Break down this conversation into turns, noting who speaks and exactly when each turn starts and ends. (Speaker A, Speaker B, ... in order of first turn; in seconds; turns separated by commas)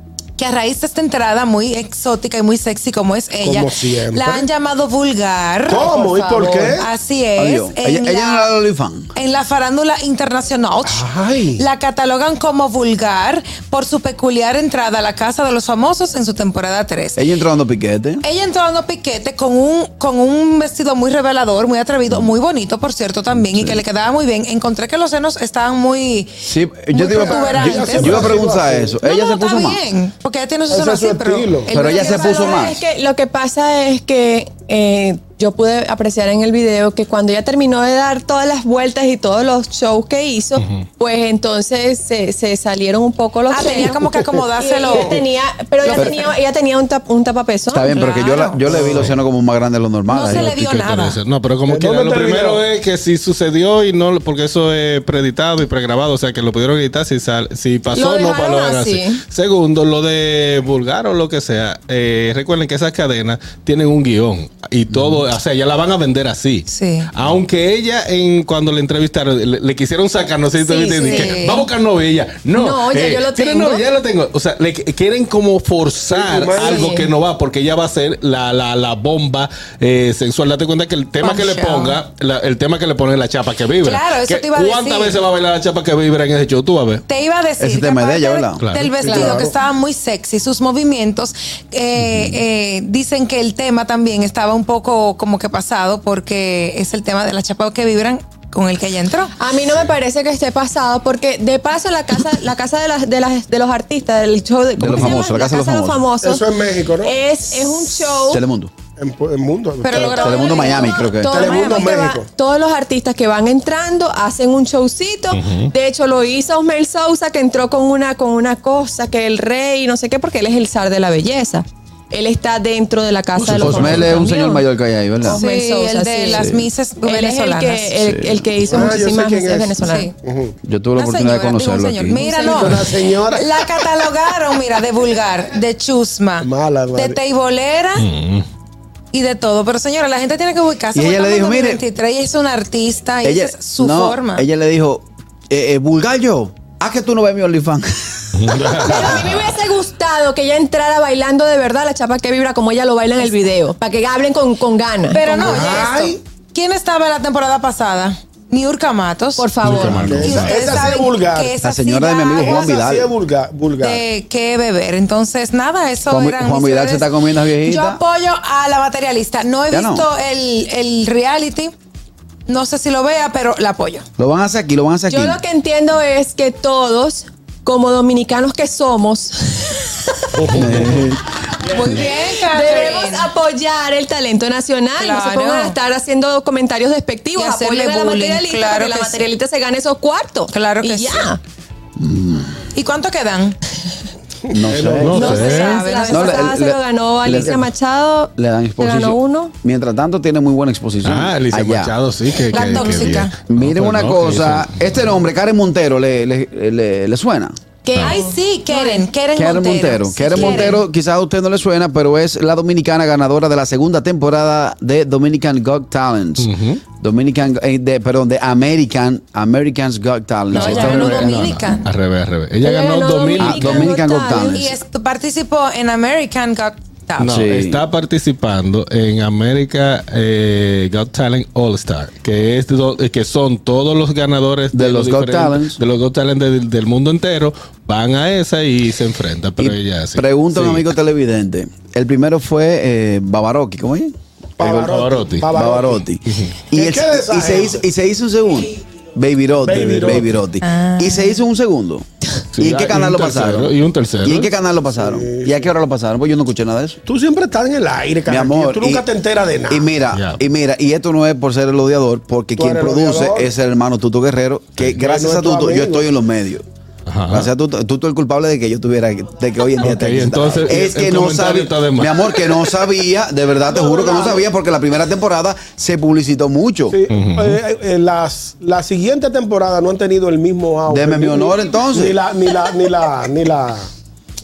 Speaker A: 0.4-5.9, Speaker B: 3.4-4.5, Speaker B: 5.7-6.9, Speaker C: 5.7-6.8, Speaker A: 6.6-8.5, Speaker D: 7.4-9.1, Speaker A: 9.1-17.2, Speaker B: 10.8-11.6, Speaker D: 17.2-18.2, Speaker A: 18.2-26.4, Speaker D: 23.4-23.8, Speaker D: 26.4-29.8, Speaker A: 26.9-28.3, Speaker B: 27.0-29.0, Speaker A: 29.0-32.7, Speaker B: 30.7-31.7, Speaker D: 31.7-32.8, Speaker C: 32.0-47.9, Speaker A: 43.5-45.3, Speaker A: 45.8-46.2, Speaker D: 45.9-46.2, Speaker D: 47.7-50.5, Speaker A: 47.9-48.8, Speaker B: 48.7-49.1, Speaker E: 48.8-49.2, Speaker A: 50.1-51.2, Speaker E: 50.3-87.0, Speaker B: 51.7-52.7, Speaker C: 57.9-59.2, Speaker D: 64.9-65.2, Speaker A: 66.7-67.1, Speaker C: 70.6-71.4, Speaker A: 71.0-71.7, Speaker C: 72.5-73.8, Speaker B: 76.1-77.0, Speaker A: 76.6-77.0, Speaker A: 81.2-82.0, Speaker A: 83.8-85.2, Speaker A: 87.1-99.3, Speaker D: 87.6-88.6, Speaker E: 88.6-89.0, Speaker B: 89.0-89.5, Speaker C: 99.4-106.5, Speaker D: 104.8-106.1, Speaker B: 106.2-107.2, Speaker C: 107.0-108.4, Speaker D: 108.3-108.7, Speaker B: 109.0-112.3, Speaker A: 109.8-111.9, Speaker D: 110.1-111.6, Speaker C: 110.9-124.7, Speaker E: 115.3-115.7, Speaker D: 123.4-125.4, Speaker E: 123.4-124.1, Speaker A: 125.2-128.0, Speaker C: 125.2-126.5, Speaker D: 126.4-126.7, Speaker C: 127.0-130.1, Speaker D: 128.0-128.5, Speaker B: 128.7-130.6, Speaker A: 129.8-130.1, Speaker D: 130.6-132.3, Speaker A: 131.0-138.1, Speaker B: 132.3-133.5, Speaker B: 136.4-137.2, Speaker E: 138.0-138.5, Speaker A: 139.1-144.4, Speaker D: 140.9-141.8, Speaker D: 143.2-149.2, Speaker E: 148.4-149.4, Speaker C: 148.8-155.8, Speaker A: 155.1-159.5, Speaker B: 155.4-156.2, Speaker C: 159.4-160.8, Speaker E: 159.6-160.7, Speaker B: 160.0-161.5, Speaker A: 160.2-162.8, Speaker D: 161.6-163.1, Speaker B: 162.4-164.0, Speaker A: 163.8-171.7, Speaker D: 166.1-168.0, Speaker D: 169.7-170.1, Speaker A: 172.5-174.1, Speaker D: 174.2-175.4, Speaker C: 175.1-179.9, Speaker B: 180.4-180.9, Speaker D: 180.5-181.2, Speaker A: 181.7-183.3, Speaker C: 181.9-191.4, Speaker A: 184.9-185.8, Speaker A: 187.3-189.3, Speaker A: 190.5-191.3, Speaker D: 192.0-192.7, Speaker A: 192.7-193.6, Speaker B: 194.5-195.5, Speaker D: 194.5-195.3, Speaker E: 195.0-195.8, Speaker A: 195.2-196.5, Speaker C: 195.2-199.5, Speaker D: 196.1-197.7, Speaker D: 198.4-201.9, Speaker E: 201.0-204.8, Speaker A: 202.4-203.3, Speaker D: 203.5-207.6, Speaker C: 207.8-209.1, Speaker A: 208.0-210.8, Speaker D: 209.3-221.3, Speaker C: 210.4-210.7, Speaker E: 216.4-216.8, Speaker E: 220.5-223.9, Speaker A: 220.5-221.9, Speaker C: 222.6-224.7, Speaker D: 223.4-224.8, Speaker A: 224.4-227.3, Speaker E: 227.2-240.8, Speaker D: 227.3-227.8, Speaker D: 234.7-235.8, Speaker D: 239.6-244.1, Speaker B: 244.6-246.0, Speaker E: 244.6-245.5, Speaker D: 245.5-252.1, Speaker E: 246.3-246.6, Speaker B: 246.7-247.8, Speaker B: 249.6-250.3, Speaker A: 250.6-251.4, Speaker E: 252.6-254.5, Speaker D: 252.6-257.0, Speaker B: 254.9-255.7, Speaker B: 257.1-259.9, Speaker D: 258.3-259.1, Speaker D: 259.7-266.6, Speaker E: 260.1-260.4, Speaker B: 262.6-263.5, Speaker E: 264.8-265.1, Speaker B: 265.0-266.1, Speaker E: 267.1-267.5, Speaker D: 267.3-277.0, Speaker E: 269.8-272.7, Speaker B: 273.6-274.5, Speaker B: 276.9-283.9, Speaker E: 277.1-277.6, Speaker D: 280.9-282.2